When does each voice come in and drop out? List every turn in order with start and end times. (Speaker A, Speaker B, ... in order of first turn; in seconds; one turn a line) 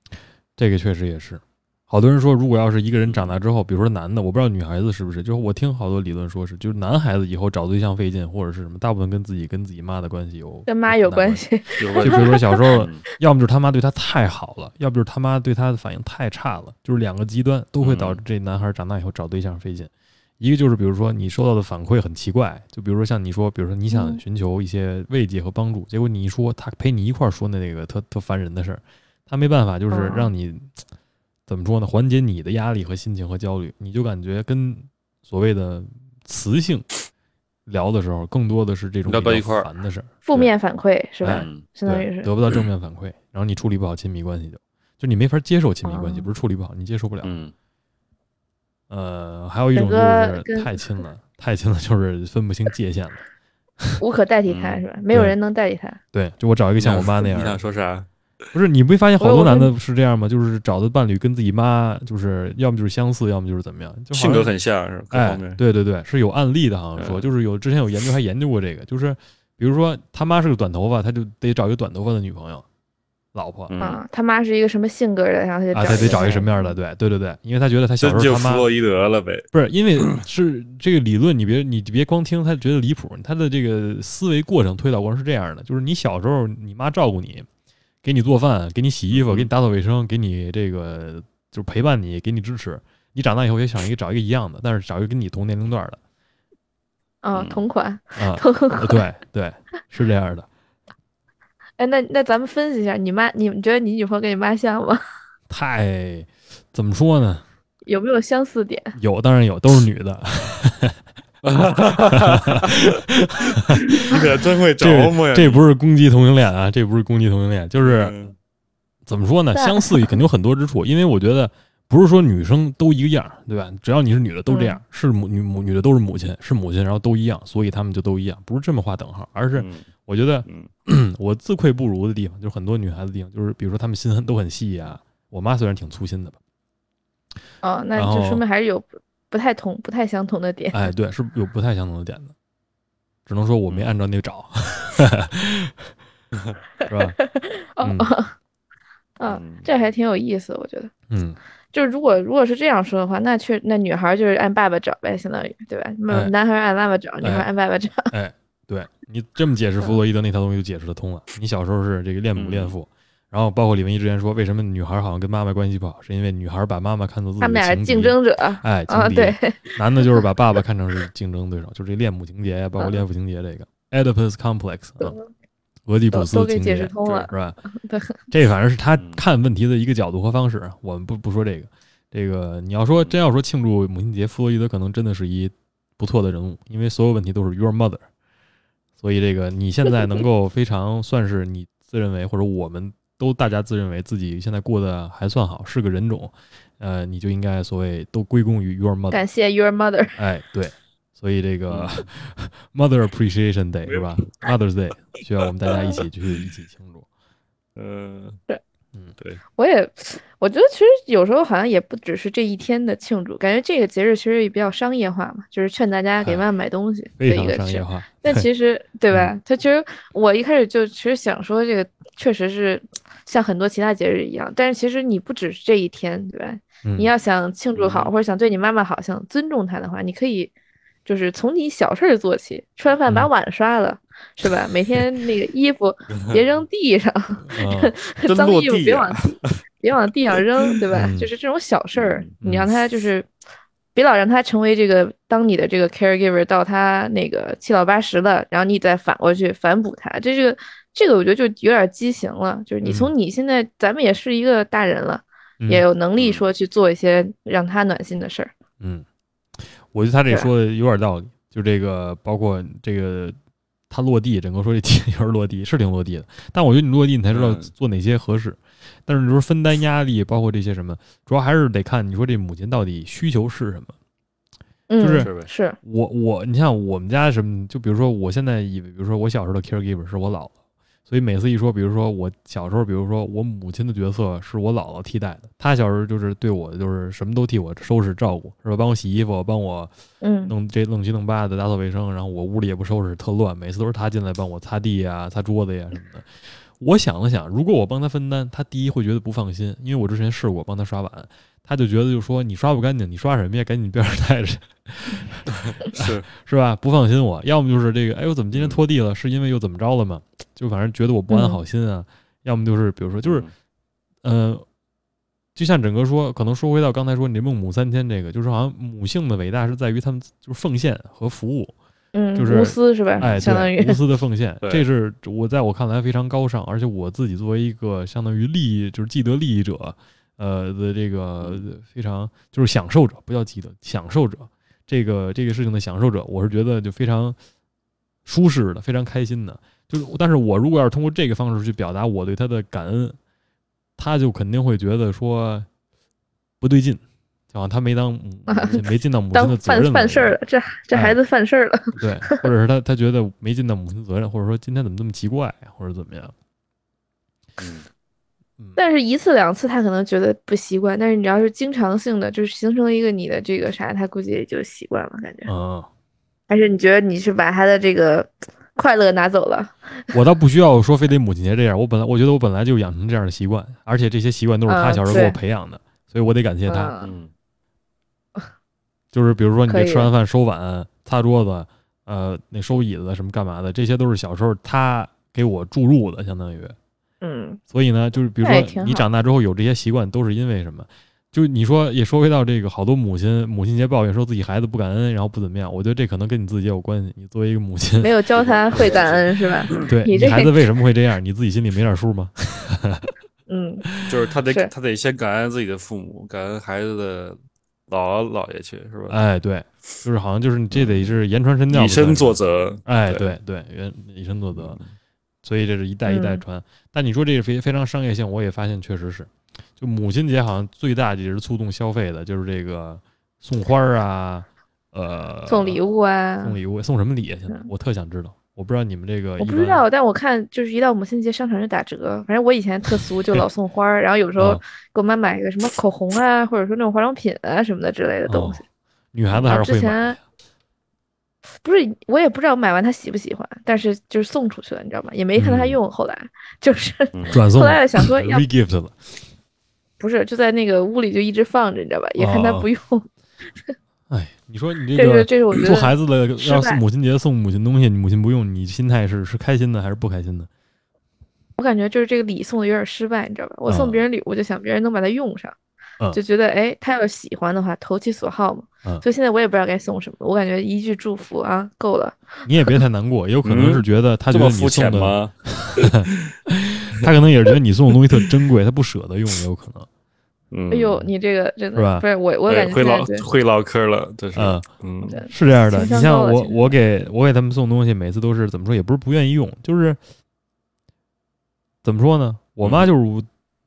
Speaker A: 0.6-11.4
Speaker B: 3.1-3.3
Speaker C: 10.7-12.7
Speaker B: 11.8-13.0
Speaker A: 12.0-30.7
Speaker B: 17.8-18.2
Speaker C: 23.9-24.2
Speaker C: 29.9-30.3
Speaker A: 31.5-36.9
Speaker A: 37.7-40.5
Speaker B: 39.0-39.7
Speaker C: 40.2-42.3
Speaker A: 41.2-47.3
Speaker B: 41.3-41.6
Speaker C: 45.8-46.3
Speaker B: 47.2-47.5
Speaker A: 48.9-53.2
Speaker C: 49.7-50.8
Speaker C: 54.0-56.0
Speaker B: 54.5-54.8
Speaker A: 56.1-57.6
Speaker B: 56.8-58.1
Speaker A: 58.5-64.5
Speaker C: 59.2-59.7
Speaker B: 64.1-65.6
Speaker A: 65.1-72.6
Speaker B: 67.0-67.3
Speaker A: 73.3-73.7
Speaker B: 73.7-74.0
Speaker C: 73.8-76.7
Speaker A: 75.7-78.7
Speaker B: 78.0-79.5
Speaker A: 79.5-87.5
Speaker A: 88.0-96.0
Speaker B: 89.1-89.5
Speaker C: 97.2-99.0
Speaker B: 97.3-97.6
Speaker A: 98.2-100.5
Speaker C: 101.8-105.0
Speaker A: 105.5-107.4
Speaker C: 107.8-109.0
Speaker A: 109.0-111.0
Speaker B: 111.4-115.6
Speaker A: 112.1-114.2
Speaker A: 114.8-118.1
Speaker B: 117.8-118.3
Speaker A: 119.0-136.4
Speaker C: 119.5-120.2
Speaker C: 124.5-124.8
Speaker B: 129.5-129.9
Speaker B: 130.4-130.7
Speaker C: 137.6-140.9
Speaker A: 137.9-138.4
Speaker A: 140.7-142.3
Speaker A: 143.3-145.9
Speaker A: 146.9-147.2
Speaker C: 147.2-148.3
Speaker A: 147.8-148.1
Speaker C: 149.2-150.9
Speaker B: 149.2-149.7
Speaker A: 151.1-151.4
Speaker C: 151.7-158.1
Speaker A: 157.2-157.5
Speaker A: 158.1-175.2
Speaker B: 162.3-162.7
Speaker C: 167.4-170.2
Speaker C: 175.0-175.3
Speaker A: 175.9-177.6
Speaker C: 176.1-178.2
Speaker A: 178.3-188.1
Speaker B: 179.0-179.2
Speaker A: 189.0-199.2
Speaker C: 199.1-200.2
Speaker A: 200.2-207.1
Speaker B: 201.7-202.1
Speaker B: 203.8-204.5
Speaker B: 207.8-208.4
Speaker C: 209.6-230.5
Speaker A: 217.2-218.5
Speaker A: 226.8-227.1
Speaker B: 227.7-228.1
Speaker C: 231.1-243.3
Speaker B: 236.1-236.4
Speaker A: 237.4-237.9
Speaker B: 238.2-239.6
Speaker A: 240.9-241.3
Speaker B: 241.9-242.3
Speaker A: 242.4-242.7
Speaker C: 243.9-258.5
Speaker A: 252.8-253.1
Speaker A: 255.6-255.8
Speaker B: 256.2-256.4
Speaker A: 259.6-263.4
Speaker A: 263.9-273.9
Speaker B: 267.3-267.7
Speaker C: 274.9-275.8
Speaker A: 275.0-275.3
Speaker B: 275.2-275.5
Speaker A: 275.8-280.5
Speaker A: 281.1-289.9
Speaker C: 290.2-290.5
Speaker A: 290.5-313.4
Speaker B: 305.5-306.3
Speaker B: 308.5-308.8
Speaker C: 311.3-311.6
Speaker B: 313.2-313.5
Speaker A: 314.2-314.6
Speaker A: 315.5-321.7
Speaker C: 322.1-324.0
Speaker A: 322.4-337.4
Speaker A: 338.2-343.2
Speaker A: 344.0-345.7
Speaker A: 346.6-350.4
Speaker C: 348.5-352.4
Speaker A: 350.9-351.2
Speaker A: 352.0-356.3
Speaker B: 357.6-357.9
Speaker C: 358.8-365.5
Speaker A: 365.4-365.9
Speaker C: 366.5-370.0
Speaker A: 370.1-376.9
Speaker C: 374.7-375.4
Speaker C: 376.6-377.1
Speaker B: 377.0-377.3
Speaker A: 379.1-386.8
Speaker C: 379.7-380.1
Speaker C: 387.2-387.6
Speaker A: 387.7-398.1
Speaker C: 388.4-389.1
Speaker C: 398.0-400.6
Speaker B: 398.3-399.9
Speaker A: 399.9-403.1
Speaker C: 403.5-403.9
Speaker B: 404.0-409.2
Speaker A: 409.1-414.8
Speaker B: 410.7-411.1
Speaker B: 411.7-413.3
Speaker B: 414.5-414.9
Speaker A: 415.4-425.8
Speaker C: 416.1-416.4
Speaker C: 425.5-426.6
Speaker A: 426.4-429.8
Speaker C: 429.4-438.6
Speaker A: 438.3-438.6
Speaker A: 439.1-440.2
Speaker C: 439.4-440.2
Speaker C: 441.6-448.4
Speaker A: 445.4-445.8
Speaker B: 447.1-447.4
Speaker A: 447.3-449.0
Speaker C: 450.0-453.1
Speaker A: 452.2-452.7
Speaker A: 454.1-460.5
Speaker C: 454.9-456.8
Speaker C: 461.6-465.6
Speaker A: 463.7-464.0
Speaker C: 466.1-472.4
Speaker A: 472.4-479.9
Speaker B: 473.4-476.3
Speaker B: 480.5-481.1
Speaker C: 480.7-483.2
Speaker A: 481.7-482.0
Speaker B: 482.5-485.2
Speaker A: 484.3-484.6
Speaker C: 485.1-486.7
Speaker A: 485.3-490.0
Speaker A: 491.8-493.3
Speaker B: 492.6-492.9